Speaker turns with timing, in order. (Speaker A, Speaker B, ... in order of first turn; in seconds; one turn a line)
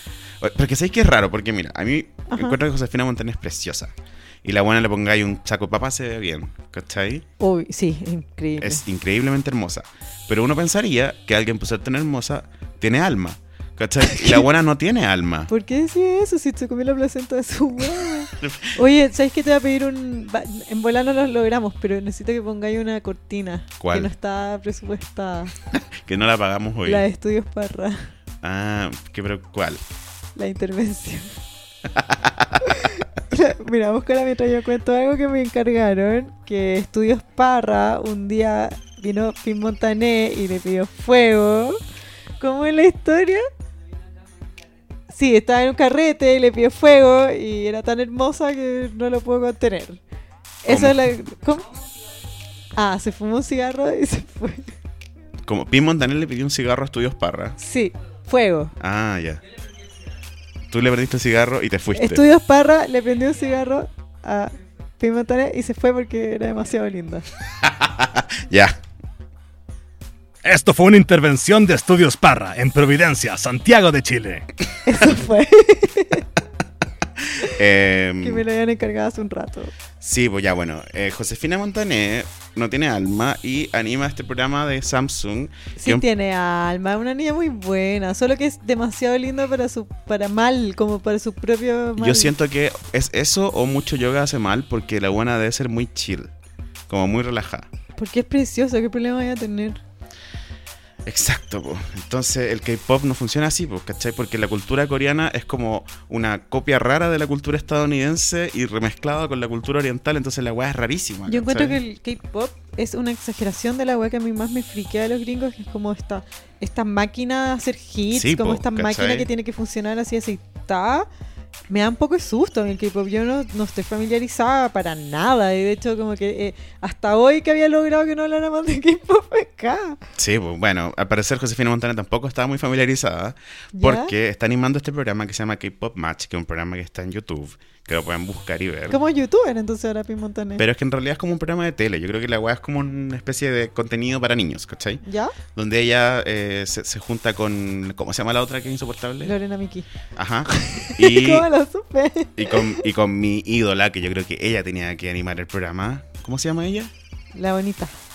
Speaker A: 0.4-7.3
Speaker B: 2.3-2.6
Speaker B: 7.4-8.8
Speaker A: 8.6-15.5
Speaker B: 14.1-14.4
Speaker B: 15.5-25.6
Speaker A: 18.4-18.8
Speaker A: 23.8-24.1
Speaker A: 25.7-27.1
Speaker B: 26.9-28.1
Speaker A: 28.4-29.8
Speaker B: 30.4-31.4
Speaker A: 31.9-32.6
Speaker B: 32.6-41.8
Speaker B: 42.4-43.5
Speaker B: 45.1-50.0
Speaker B: 50.6-51.7
Speaker A: 50.7-51.0
Speaker B: 52.8-54.7
Speaker A: 55.5-57.6
Speaker B: 57.6-58.7
Speaker A: 58.8-59.4
Speaker A: 60.7-62.2
Speaker B: 62.0-67.3
Speaker A: 67.6-68.8
Speaker C: 70.4-74.5
Speaker B: 74.9-76.3
Speaker A: 77.4-78.5
Speaker B: 78.2-79.7
Speaker A: 80.0-86.0
Speaker B: 85.8-92.3
Speaker A: 92.0-96.3
Speaker A: 96.9-97.7
Speaker B: 98.0-99.8
Speaker A: 101.0-111.8
Speaker B: 111.3-121.1
Speaker A: 118.1-119.3
Speaker B: 121.7-130.0
Speaker A: 130.2-139.0
Speaker B: 133.8-134.1
Speaker B: 138.9-140.6
Speaker A: 140.6-145.0
Speaker B: 145.0-145.3
Speaker A: 145.5-149.3
Speaker B: 149.2-149.9
Speaker A: 150.2-151.5
Speaker B: 150.5-152.8
Speaker A: 152.4-156.9
Speaker B: 157.3-157.9